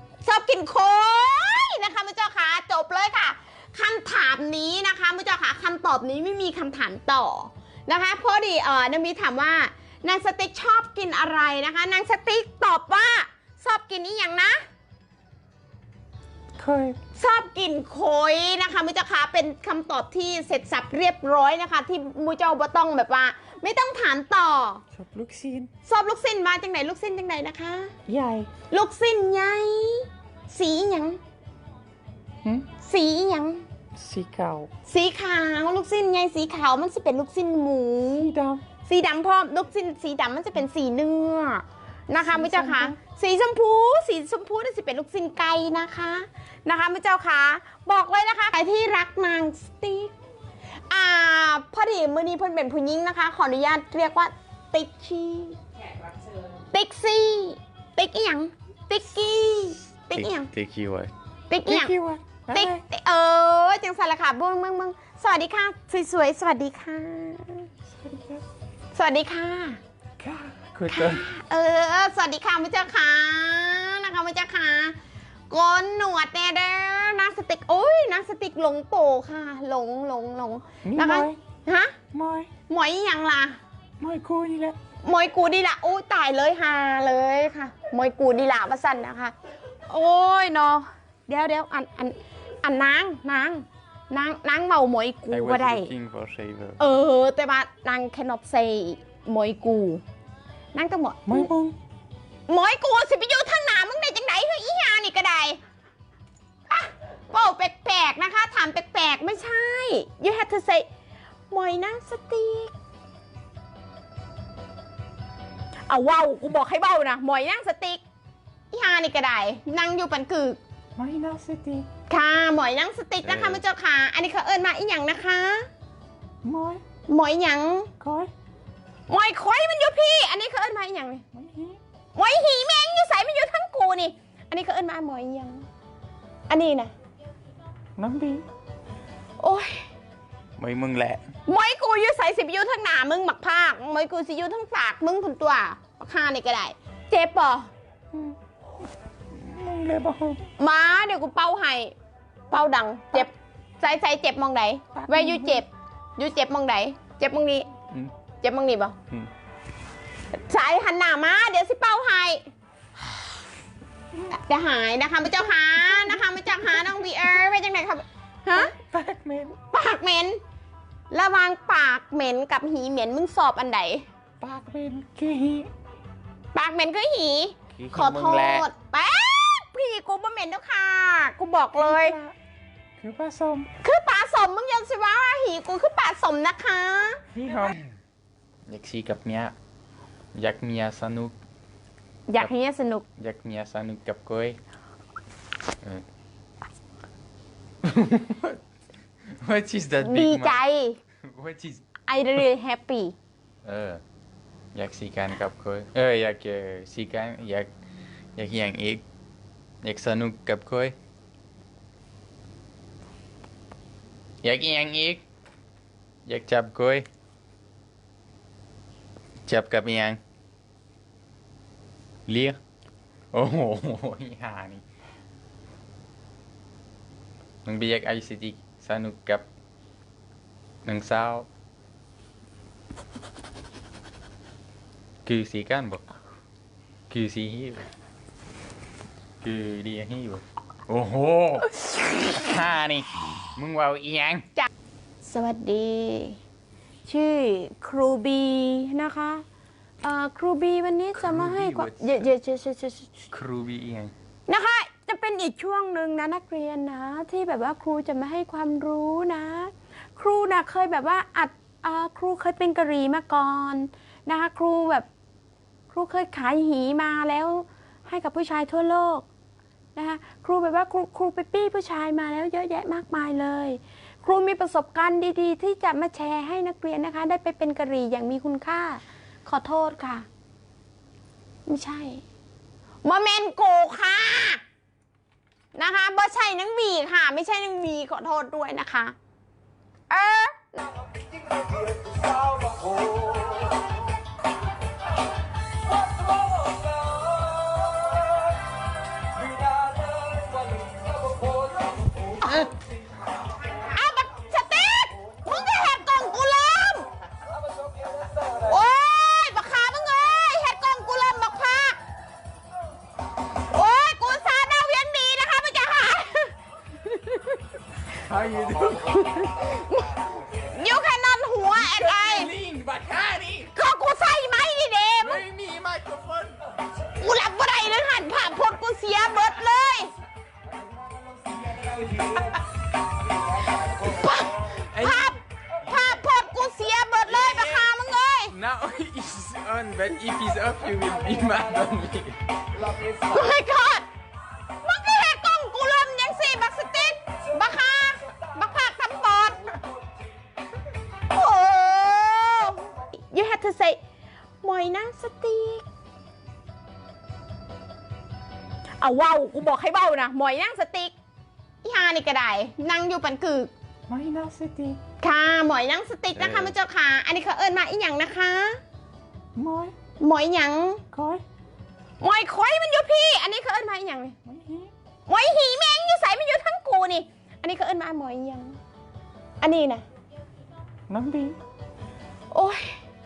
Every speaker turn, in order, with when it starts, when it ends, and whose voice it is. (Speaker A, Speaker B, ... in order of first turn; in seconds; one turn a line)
Speaker A: 0.2-14.6
Speaker B: 16.6-17.0
Speaker A: 17.1-24.8
Speaker B: 24.9-25.7
Speaker A: 25.8-27.9
Speaker B: 28.1-28.5
Speaker A: 28.7-31.2
Speaker A: 32.8-33.6
Speaker B: 34.0-34.7
Speaker A: 34.9-38.3
Speaker B: 38.1-38.6
Speaker A: 38.9-50.1
Speaker B: 42.3-43.0
Speaker A: 50.9-55.6
Speaker A: 56.6-60.5
Speaker B: 60.1-61.1
Speaker A: 61.5-61.9
Speaker B: 61.7-62.8
Speaker A: 62.5-67.7
Speaker B: 67.9-68.4
Speaker A: 68.9-69.8
Speaker B: 70.2-71.2
Speaker A: 70.9-75.0
Speaker A: 75.5-82.0
Speaker B: 80.8-81.4
Speaker B: 82.1-82.5
Speaker A: 82.7-83.6
Speaker B: 84.0-84.8
Speaker A: 85.0-89.3
Speaker A: 89.9-95.9
Speaker B: 95.3-96.8
Speaker A: 96.8-100.0
Speaker A: 100.7-101.5
Speaker B: 101.3-101.8
Speaker A: 102.5-105.6
Speaker A: 106.7-110.9
Speaker A: 111.5-112.7
Speaker A: 115.9-118.0
Speaker A: 118.7-120.6
Speaker B: 121.0-121.9
Speaker A: 122.1-125.7
Speaker B: 123.2-123.6
Speaker B: 126.4-126.8
Speaker A: 127.1-127.9
Speaker B: 128.0-128.3
Speaker A: 129.1-131.2
Speaker B: 131.3-131.8
Speaker A: 132.2-135.7
Speaker A: 136.5-136.9
Speaker B: 138.0-138.4
Speaker A: 139.4-139.9
Speaker B: 140.6-141.2
Speaker A: 141.5-147.7
Speaker B: 149.3-150.4
Speaker A: 150.6-151.9
Speaker A: 152.5-157.7
Speaker B: 154.9-155.6
Speaker A: 158.4-159.0
Speaker A: 160.3-162.4
Speaker A: 164.2-168.7
Speaker B: 165.9-166.2
Speaker B: 168.5-169.6
Speaker A: 169.7-170.4
Speaker A: 171.1-174.1
Speaker B: 174.4-175.7
Speaker A: 176.5-182.2
Speaker B: 177.8-178.7
Speaker B: 181.8-182.3
Speaker B: 183.0-183.7
Speaker A: 183.8-187.2
Speaker B: 187.3-187.9
Speaker B: 188.7-189.6
Speaker B: 190.3-191.3
Speaker A: 192.3-193.1
Speaker B: 193.2-194.6
Speaker B: 197.8-198.6
Speaker B: 199.3-200.6
Speaker A: 200.0-201.0
Speaker B: 201.2-201.8
Speaker A: 202.1-203.2
Speaker B: 203.7-204.0
Speaker B: 204.7-207.7
Speaker B: 208.4-209.0
Speaker B: 209.8-211.0
Speaker B: 214.4-215.2
Speaker B: 216.3-217.1
Speaker B: 219.5-220.2
Speaker B: 222.3-222.6
Speaker B: 223.3-224.8
Speaker B: 227.7-229.5
Speaker B: 230.8-231.5
Speaker B: 235.2-236.0
Speaker B: 237.1-237.9
Speaker B: 239.4-244.5
Speaker A: 245.2-246.4
Speaker A: 247.1-249.4
Speaker A: 250.0-253.2
Speaker B: 251.2-252.2
Speaker B: 253.3-254.1
Speaker A: 254.5-265.1
Speaker A: 265.9-269.3
Speaker A: 269.9-280.3
Speaker A: 281.7-282.2
Speaker A: 283.0-284.6
Speaker A: 285.8-289.1
Speaker A: 290.1-290.8
Speaker A: 302.4-302.7
Speaker A: 303.8-307.1
Speaker A: 308.6-312.0
Speaker A: 313.7-317.6
Speaker B: 318.2-319.4
Speaker A: 319.3-320.1
Speaker A: 320.7-322.5
Speaker B: 321.7-323.7
Speaker A: 323.7-325.4
Speaker B: 325.2-326.6
Speaker A: 327.2-330.1
Speaker A: 333.9-338.5
Speaker B: 334.9-335.4
Speaker B: 337.3-337.9
Speaker B: 338.5-342.4
Speaker A: 343.2-344.1
Speaker A: 344.8-349.7
Speaker A: 351.3-354.0
Speaker A: 354.6-355.9
Speaker A: 359.0-361.1
Speaker A: 361.8-363.7
Speaker B: 364.1-365.0
Speaker A: 365.2-368.8
Speaker B: 366.4-366.7
Speaker B: 369.6-369.9
Speaker A: 370.2-371.0
Speaker B: 371.1-371.4
Speaker A: 372.2-374.4
Speaker B: 374.4-374.9
Speaker A: 375.3-378.8
Speaker A: 379.6-380.0
Speaker B: 381.1-381.6
Speaker A: 382.5-383.0